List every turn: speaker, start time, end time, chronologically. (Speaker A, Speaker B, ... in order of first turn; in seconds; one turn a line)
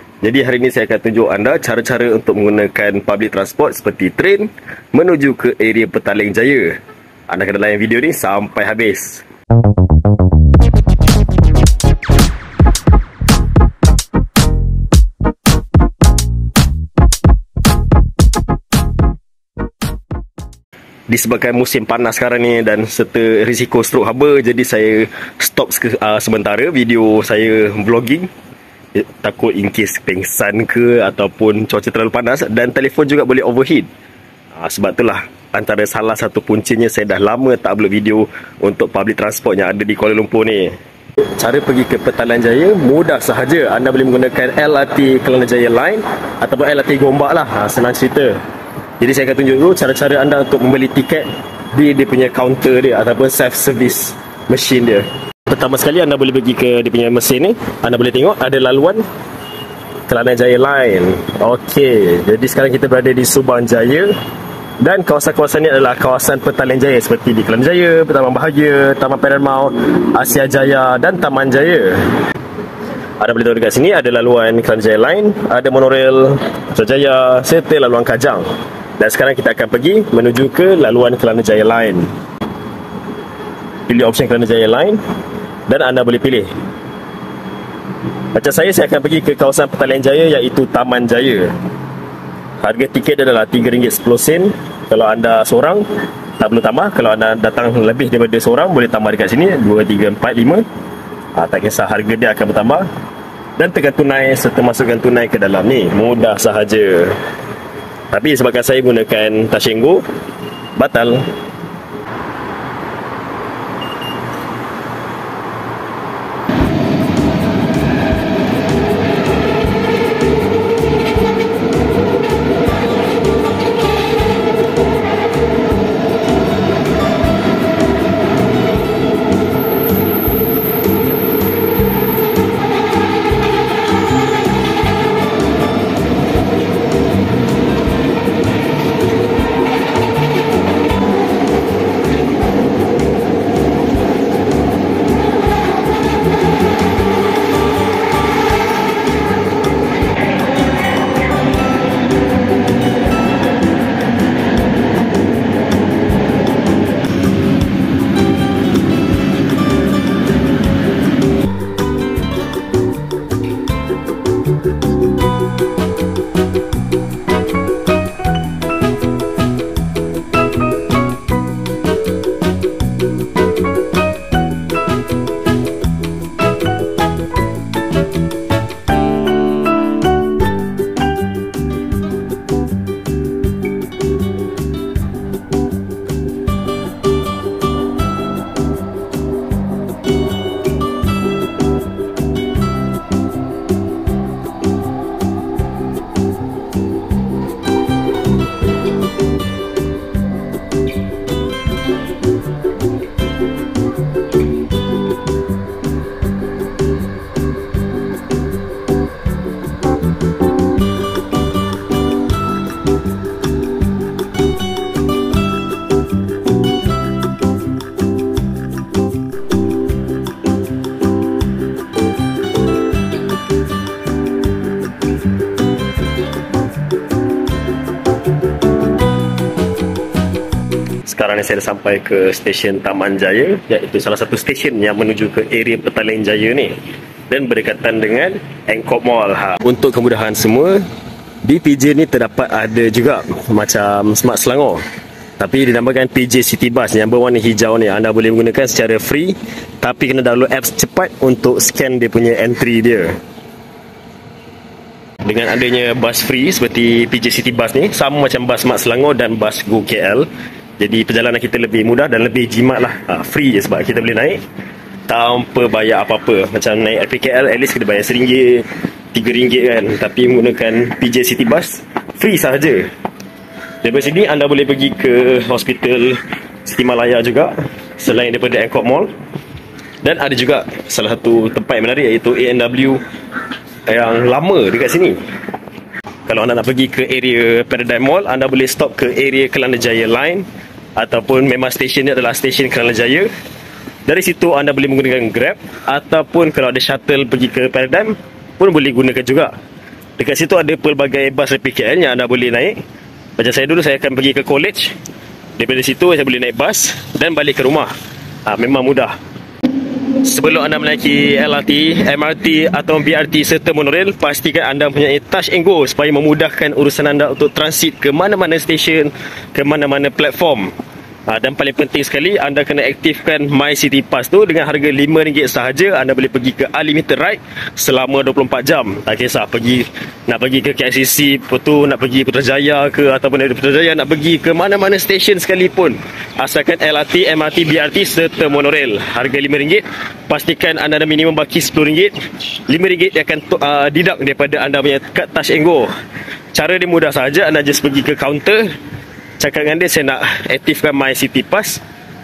Speaker A: 0.2-9.2
Speaker A: 21.1-28.3
Speaker A: 28.9-33.9
Speaker A: 34.5-40.8
Speaker A: 41.3-48.4
Speaker A: 49.0-59.0
Speaker A: 60.1-64.1
Speaker A: 64.8-72.1
Speaker A: 73.2-82.1
Speaker A: 83.9-85.0
Speaker A: 85.7-86.5
Speaker A: 88.3-91.5
Speaker A: 92.6-95.8
Speaker A: 96.4-100.6
Speaker A: 101.3-102.9
Speaker A: 103.6-107.2
Speaker A: 108.1-110.0
Speaker A: 110.8-111.3
Speaker A: 231.1-236.8
Speaker A: 237.3-240.8
Speaker A: 241.4-244.8
Speaker A: 245.4-253.2
Speaker A: 255.2-260.3
Speaker A: 260.8-264.4
Speaker A: 265.1-272.9
Speaker A: 273.8-279.1
Speaker A: 280.0-283.0
Speaker A: 283.9-285.2
Speaker A: 286.2-293.3
Speaker A: 294.1-299.5
Speaker A: 300.2-302.8
Speaker A: 303.4-304.9
Speaker A: 305.6-307.9
Speaker A: 308.4-309.1
Speaker A: 310.1-320.7
Speaker A: 321.3-345.9
Speaker A: 346.5-348.7
Speaker A: 349.4-351.8